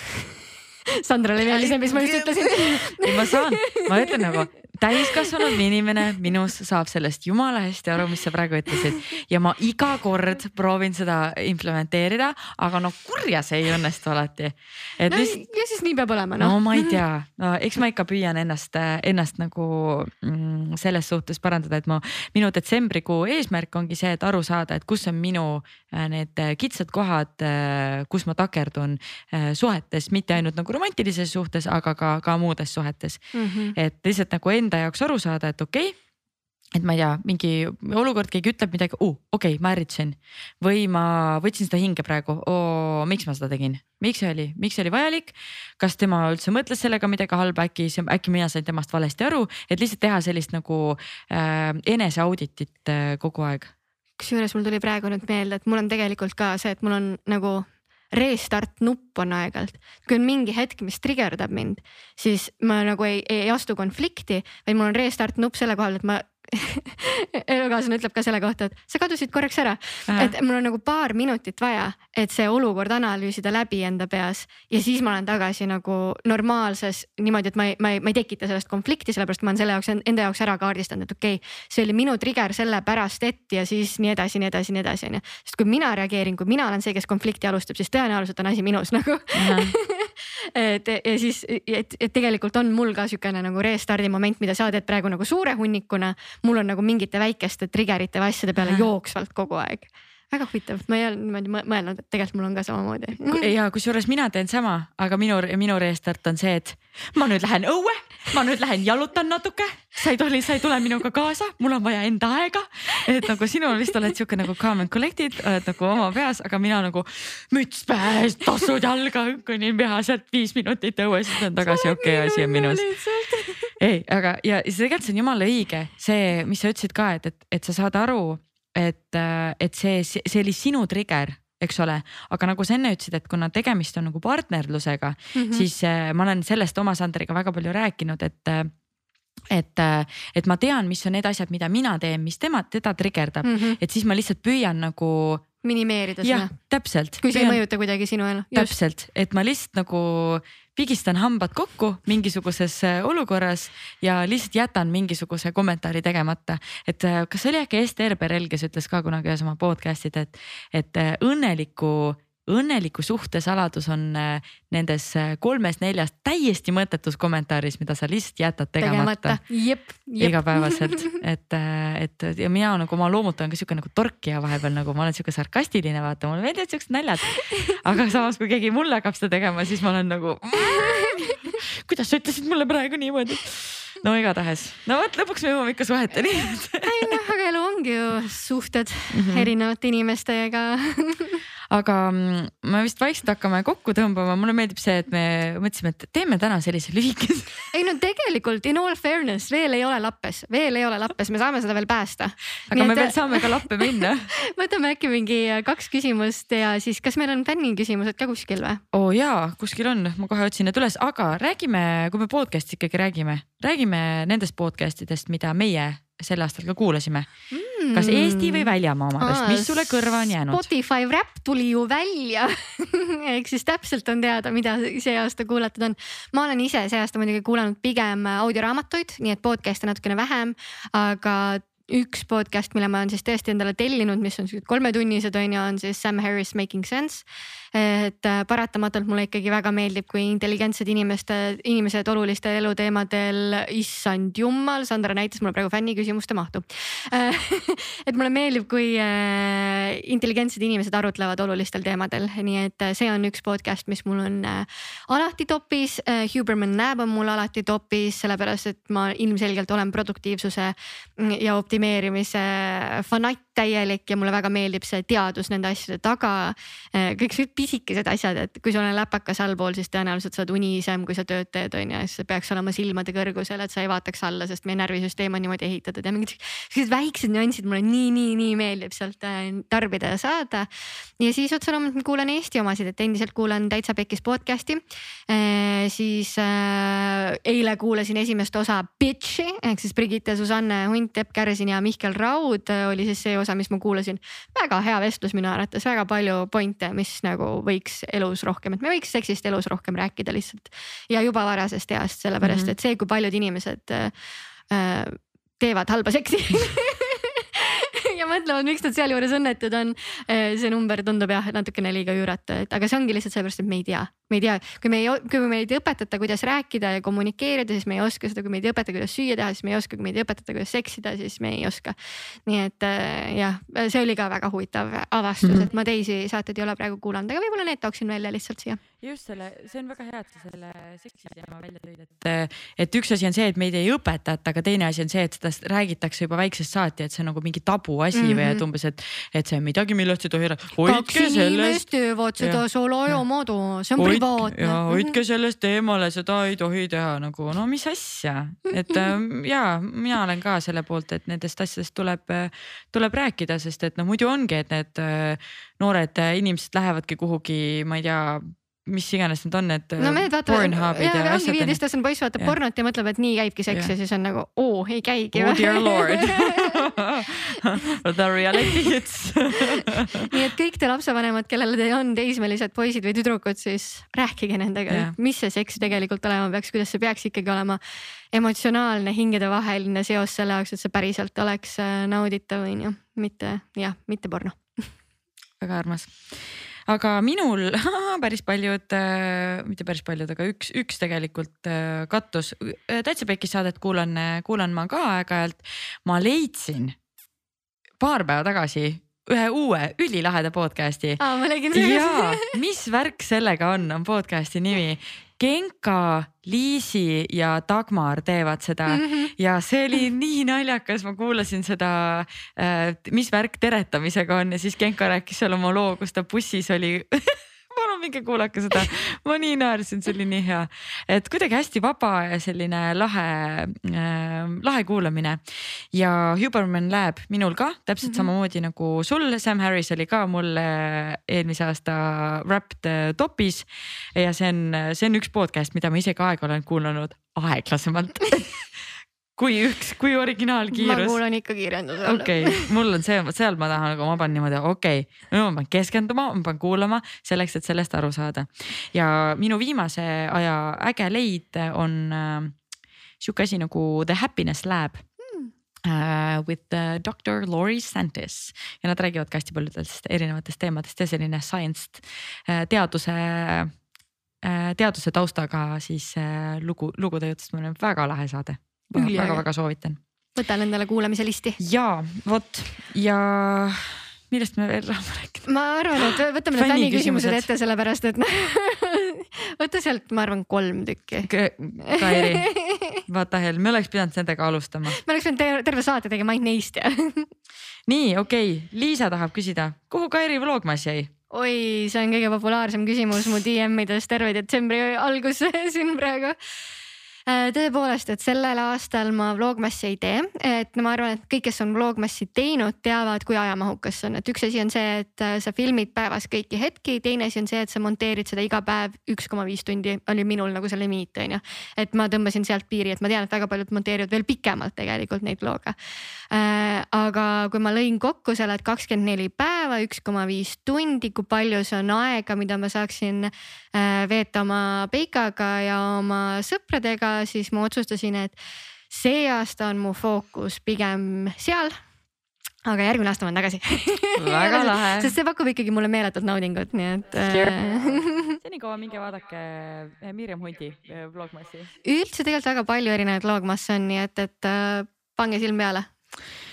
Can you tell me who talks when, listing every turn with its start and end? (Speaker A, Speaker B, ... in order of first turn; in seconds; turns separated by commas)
Speaker A: 1.0-4.3, Speaker B: 1.4-15.4, Speaker A: 5.0-5.5, Speaker A: 15.1-17.0, Speaker B: 16.4-33.2, Speaker A: 33.3-33.8, Speaker B: 33.8-36.0, Speaker B: 36.7-53.7, Speaker A: 54.2-103.5, Speaker B: 70.1-70.3, Speaker B: 89.3-89.7, Speaker B: 98.6-98.9, Speaker B: 103.3-122.9, Speaker A: 121.6-123.7, Speaker B: 123.8-138.7, Speaker A: 135.3-135.7, Speaker B: 139.5-145.5, Speaker A: 143.4-143.8, Speaker A: 145.6-146.6, Speaker B: 146.2-147.6, Speaker A: 147.2-148.7, Speaker B: 148.5-169.4, Speaker A: 168.8-171.2, Speaker B: 170.2-187.1, Speaker A: 180.6-181.6, Speaker A: 186.8-191.4, Speaker B: 189.1-189.5, Speaker B: 191.7-197.7, Speaker A: 197.7-208.8, Speaker B: 202.7-204.3, Speaker B: 208.9-217.3, Speaker A: 217.5-280.7, Speaker B: 217.9-220.7, Speaker A: 281.2-304.1, Speaker B: 302.4-302.7, Speaker A: 304.7-321.9, Speaker A: 322.5-328.8, Speaker B: 325.4-325.7, Speaker B: 329.0-341.9, Speaker A: 338.1-338.6, Speaker A: 340.8-345.1, Speaker B: 342.4-343.2, Speaker B: 344.0-361.8, Speaker A: 360.0-366.9, Speaker B: 365.3-370.3, Speaker A: 368.6-368.9, Speaker A: 370.0-377.8, Speaker B: 374.9-375.2, Speaker A: 378.3-384.8, Speaker B: 385.6-386.2, Speaker B: 386.9-396.9, Speaker B: 398.0-401.2, Speaker A: 401.2-402.6, Speaker B: 401.7-425.4, Speaker A: 408.9-409.3, Speaker B: 425.9-438.7, Speaker B: 439.4-441.2, Speaker A: 440.7-442.7, Speaker B: 442.0-452.6, Speaker B: 453.2-455.0, Speaker A: 455.2-455.5, Speaker B: 455.8-463.7, Speaker B: 464.4-470.0, Speaker A: 468.9-469.4, Speaker A: 470.4-471.6, Speaker B: 471.6-477.5, Speaker A: 475.5-483.0, Speaker B: 481.3-482.5, Speaker B: 483.1-485.0, Speaker A: 484.9-487.3, Speaker B: 487.9-491.1, Speaker A: 491.3-496.4, Speaker A: 497.3-515.8, Speaker A: 516.3-528.4, Speaker A: 528.9-531.8, Speaker A: 532.7-538.4, Speaker B: 534.2-535.1, Speaker B: 537.1-541.7, Speaker A: 541.8-545.9